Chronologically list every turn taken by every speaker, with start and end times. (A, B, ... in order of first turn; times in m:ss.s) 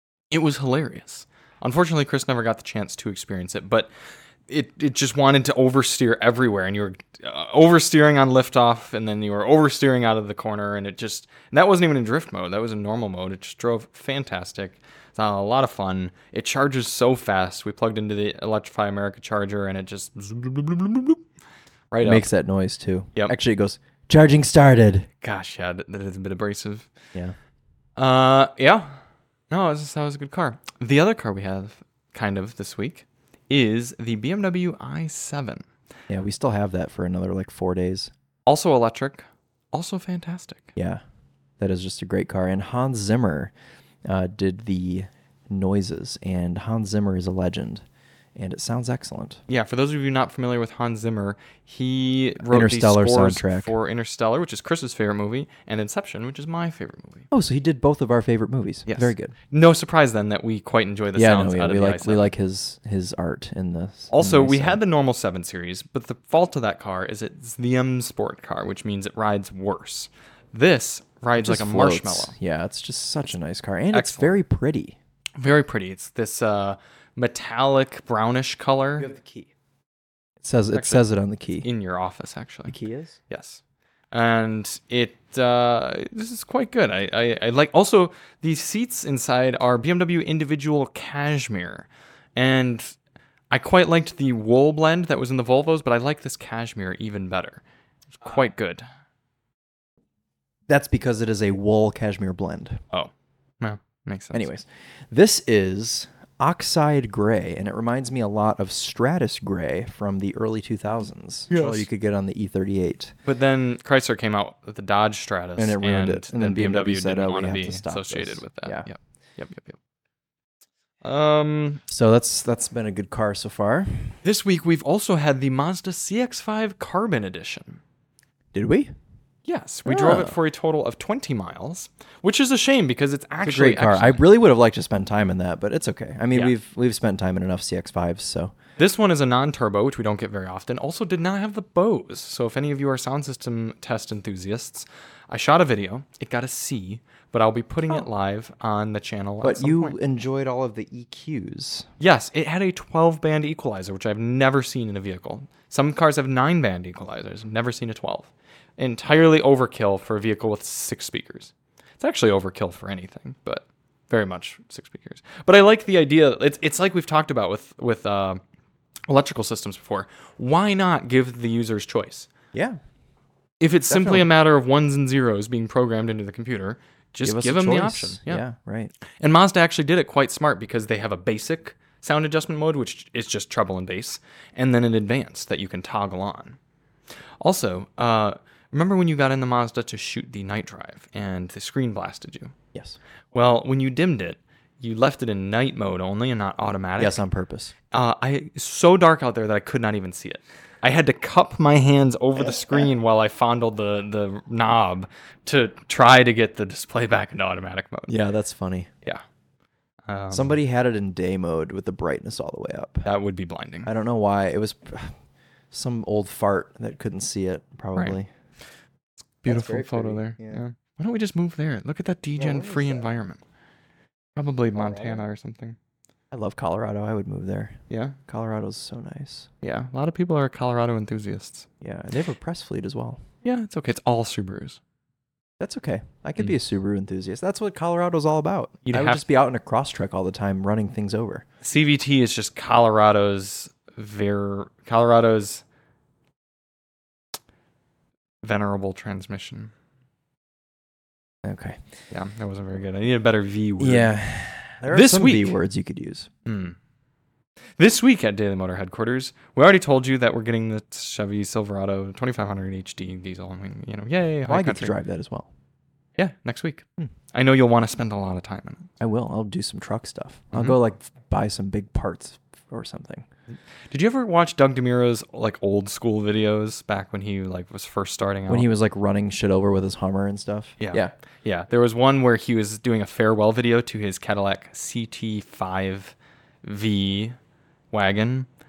0:00.3-0:03.9 A
0:04.5-0:21.2 A
0:21.9-0:22.3 A
0:22.0-0:25.1 B
0:25.2-0:26.9 A
0:28.0-0:35.6 A
0:36.1-0:38.1 B
0:38.5-0:40.7 A
0:40.8-0:41.0 B
0:41.6-0:43.5 B
0:44.1-0:47.8 B
0:48.4-0:49.4 B
0:49.5-0:57.3 A
0:52.4-0:53.7 B
0:57.3-0:59.3 B
0:58.9-1:02.3 A
1:01.2-1:04.8 B
1:04.1-1:12.3 A
1:11.4-1:15.0 B
1:13.9-1:14.3 A
1:15.4-1:19.1 A
1:19.0-1:19.5 B
1:20.4-1:21.7 B
1:20.7-1:21.0 A
1:21.6-1:22.8 A
1:22.7-1:23.2 B
1:23.3-1:23.6 A
1:24.1-1:33.0 A
1:33.5-1:38.8 A
1:40.7-1:42.8 B
1:42.9-1:44.5 A
1:44.3-1:53.1 B
1:51.5-1:51.9 A
1:53.3-1:59.8 A
1:55.6-1:58.9 B
2:01.0-2:01.8 A
2:01.9-2:04.2 B
2:04.2-2:07.8 A
2:08.5-2:08.9 B
2:09.5-2:14.2 A
2:09.9-2:10.4 B
2:13.4-2:18.5 B
2:18.8-2:30.0 A
2:29.4-2:31.9 B
2:32.0-2:48.4 A
2:49.1-2:52.3 A
2:52.5-2:52.8 B
2:53.6-2:58.4 A
2:53.9-2:54.3 B
2:57.2-2:58.9 B
2:59.2-3:06.6 A
3:07.4-3:12.6 A
3:13.3-3:17.2 A
3:17.0-3:17.7 B
3:17.9-3:28.1 A
3:22.4-3:22.9 B
3:28.1-3:28.9 B
3:30.1-3:30.6 A
3:30.3-3:33.1 B
3:33.0-3:33.9 A
3:33.8-3:35.2 B
3:35.7-3:38.3 B
3:39.4-3:43.4 A
3:39.5-3:40.6 B
3:42.4-3:43.1 B
3:44.4-3:45.8 A
3:44.7-3:45.2 B
3:46.3-3:49.5 B
3:47.9-3:48.2 A
3:49.6-3:51.7 A
3:51.8-3:53.2 B
3:53.4-3:54.8 A
3:55.6-4:01.4 B
3:58.8-3:59.2 A
4:01.6-4:05.6 A
4:08.4-4:09.7 A
4:11.4-4:11.8 B
4:12.1-4:14.2 A
4:13.8-4:16.3 B
4:14.9-4:15.6 A
4:16.4-4:16.8 A
4:17.8-4:25.0 A
4:24.5-4:25.5 B
4:26.2-4:28.9 A
4:29.0-4:33.3 B
4:30.5-4:30.8 A
4:33.9-4:38.7 A
4:38.5-4:41.1 B
4:40.8-4:47.4 A
4:47.9-4:48.5 A